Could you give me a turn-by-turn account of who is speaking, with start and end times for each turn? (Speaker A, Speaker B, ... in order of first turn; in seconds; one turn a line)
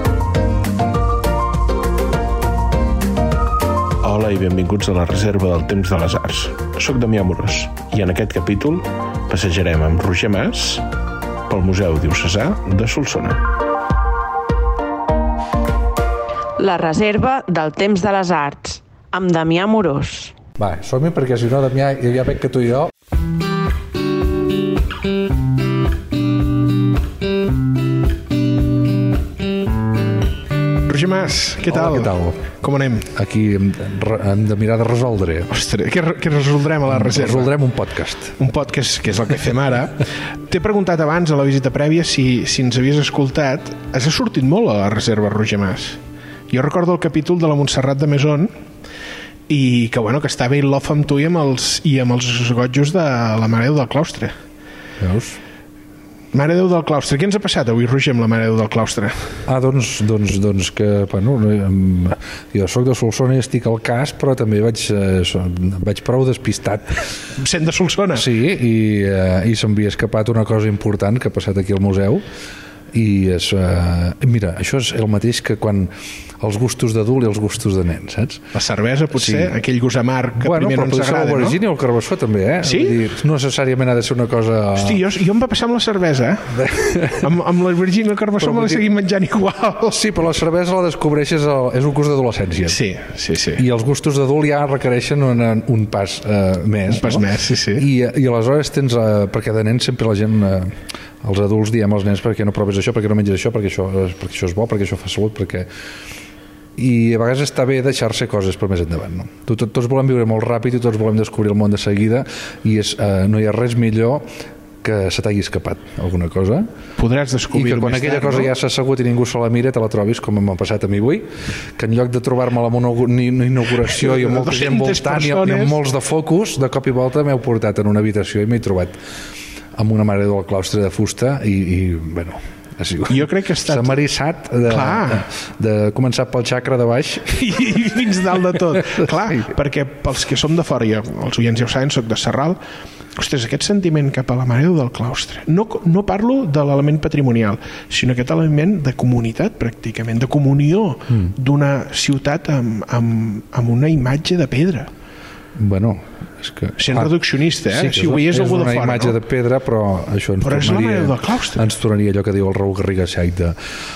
Speaker A: 4.0-10.8
Speaker A: 11.5-13.4
Speaker B: 16.6-20.3
Speaker C: 20.6-22.9
Speaker A: 30.9-33.1
Speaker C: 31.7-32.4
Speaker C: 33.1-35.5
Speaker A: 35.5-37.5
Speaker C: 36.9-38.4
Speaker A: 38.4-48.5
Speaker A: 49.5-54.3
Speaker C: 55.0-55.4
Speaker A: 56.3-59.4
Speaker C: 59.5-67.1
Speaker A: 67.3-68.3
Speaker C: 68.1-72.3
Speaker C: 72.9-78.5
Speaker A: 78.5-81.6
Speaker C: 79.2-79.5
Speaker C: 80.4-85.0
Speaker A: 82.6-83.0
Speaker A: 84.8-90.0
Speaker C: 86.5-87.3
Speaker C: 88.4-88.8
Speaker C: 89.9-92.8
Speaker A: 92.7-93.6
Speaker C: 93.6-97.3
Speaker A: 96.9-97.9
Speaker C: 97.8-105.7
Speaker C: 106.8-114.3
Speaker C: 114.8-116.7
Speaker A: 117.0-118.5
Speaker C: 117.5-129.0
Speaker A: 123.8-125.8
Speaker C: 129.8-137.4
Speaker A: 133.1-134.0
Speaker A: 134.7-135.2
Speaker A: 137.3-142.6
Speaker A: 143.2-154.9
Speaker C: 155.6-163.6
Speaker A: 156.8-159.2
Speaker A: 160.4-161.6